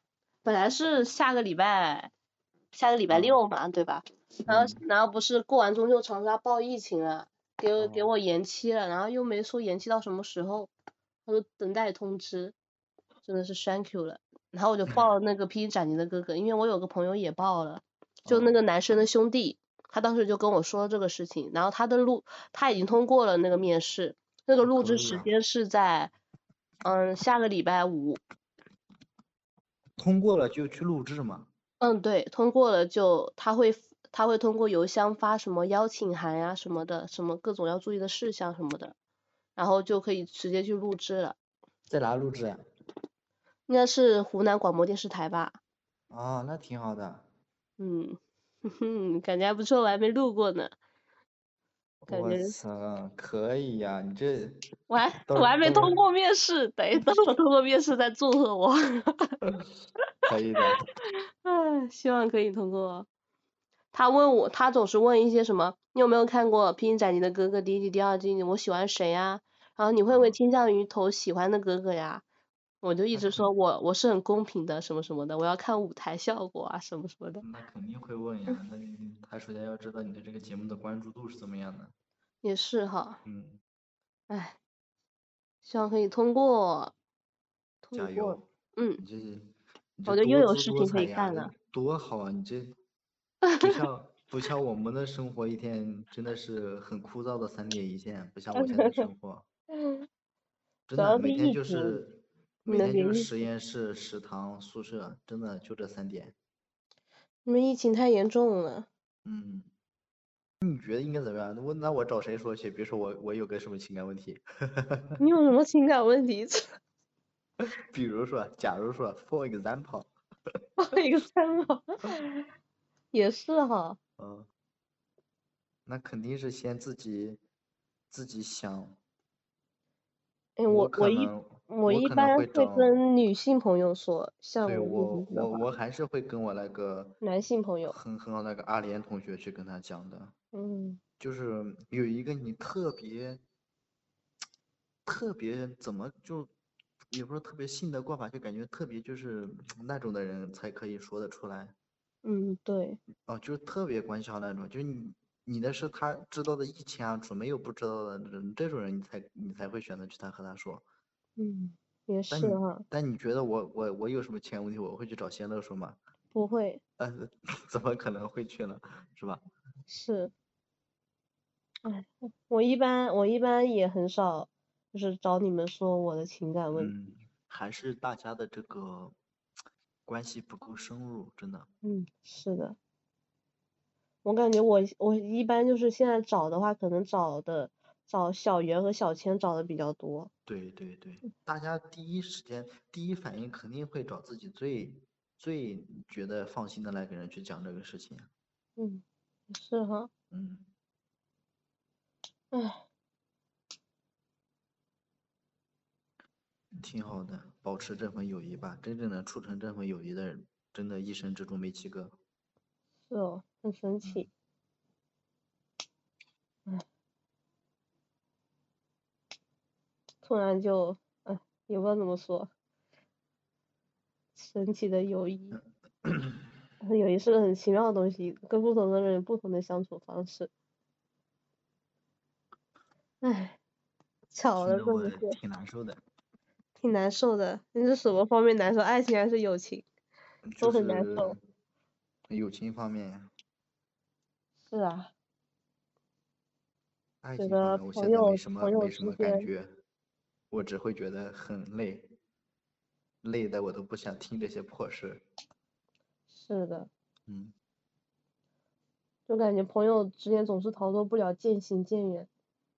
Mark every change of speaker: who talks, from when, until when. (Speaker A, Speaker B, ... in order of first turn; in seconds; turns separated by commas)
Speaker A: 0.4-2.1, Speaker A: 2.7-10.7, Speaker B: 3.1-3.4, Speaker B: 4.5-4.8, Speaker B: 7.8-8.1, Speaker A: 11.3-12.5, Speaker A: 13.2-26.1, Speaker B: 18.2-18.6, Speaker B: 24.6-25.3, Speaker A: 26.8-28.2, Speaker B: 30.0-31.5, Speaker A: 31.8-38.9, Speaker A: 39.5-41.4, Speaker B: 41.9-42.6, Speaker A: 43.7-45.6, Speaker B: 46.1-47.2, Speaker A: 47.8-50.7, Speaker B: 52.0-54.6, Speaker A: 52.1-52.5, Speaker A: 54.9-59.4, Speaker B: 55.2-56.0, Speaker B: 60.2-60.8, Speaker A: 61.4-63.1, Speaker A: 63.9-72.2, Speaker B: 70.1-70.4, Speaker A: 72.8-77.4, Speaker B: 73.1-73.5, Speaker B: 77.4-81.9, Speaker A: 82.4-83.2, Speaker B: 83.2-83.6, Speaker A: 84.3-84.6, Speaker A: 85.6-86.9, Speaker A: 87.8-89.0, Speaker B: 87.9-88.4, Speaker B: 89.0-92.8, Speaker A: 90.1-91.5, Speaker B: 93.6-99.5, Speaker A: 98.5-99.0, Speaker A: 99.8-100.0, Speaker B: 100.9-106.3, Speaker A: 101.0-102.0, Speaker A: 102.7-103.3, Speaker A: 107.4-108.9, Speaker B: 109.2-109.7, Speaker B: 110.6-115.2, Speaker A: 115.2-116.7, Speaker B: 117.6-120.1, Speaker A: 120.8-122.5, Speaker A: 123.1-124.0, Speaker B: 124.2-124.5, Speaker B: 125.8-127.4, Speaker B: 128.1-129.0, Speaker A: 130.6-135.6, Speaker B: 130.7-132.9, Speaker B: 134.6-137.2, Speaker A: 137.2-138.0, Speaker B: 137.9-140.3, Speaker A: 140.5-141.0, Speaker B: 141.2-143.4, Speaker B: 145.1-146.5, Speaker B: 147.1-151.7, Speaker A: 152.2-153.0, Speaker B: 153.2-160.8, Speaker A: 161.4-162.8, Speaker B: 162.3-166.0, Speaker A: 166.3-166.8, Speaker B: 167.0-169.4, Speaker A: 169.9-170.3, Speaker A: 171.8-176.9, Speaker B: 176.7-179.1, Speaker B: 180.1-181.7, Speaker A: 181.8-182.8, Speaker A: 184.2-190.3, Speaker B: 190.4-198.3, Speaker A: 198.8-200.1, Speaker B: 200.3-200.7, Speaker A: 202.5-202.8, Speaker B: 206.7-212.1, Speaker A: 213.1-214.3, Speaker B: 214.0-214.3, Speaker A: 220.2-222.5, Speaker A: 224.3-225.6, Speaker B: 226.0-226.4, Speaker A: 226.8-230.5, Speaker A: 233.2-233.6, Speaker A: 234.3-235.3, Speaker B: 234.6-236.0, Speaker A: 236.8-239.9, Speaker B: 240.4-241.4, Speaker A: 240.6-241.3, Speaker B: 242.3-243.3, Speaker A: 244.7-245.1, Speaker B: 247.2-249.7, Speaker A: 247.4-249.5, Speaker B: 250.5-252.1, Speaker B: 253.2-255.2, Speaker A: 256.3-256.9, Speaker B: 257.3-257.5, Speaker A: 259.3-262.3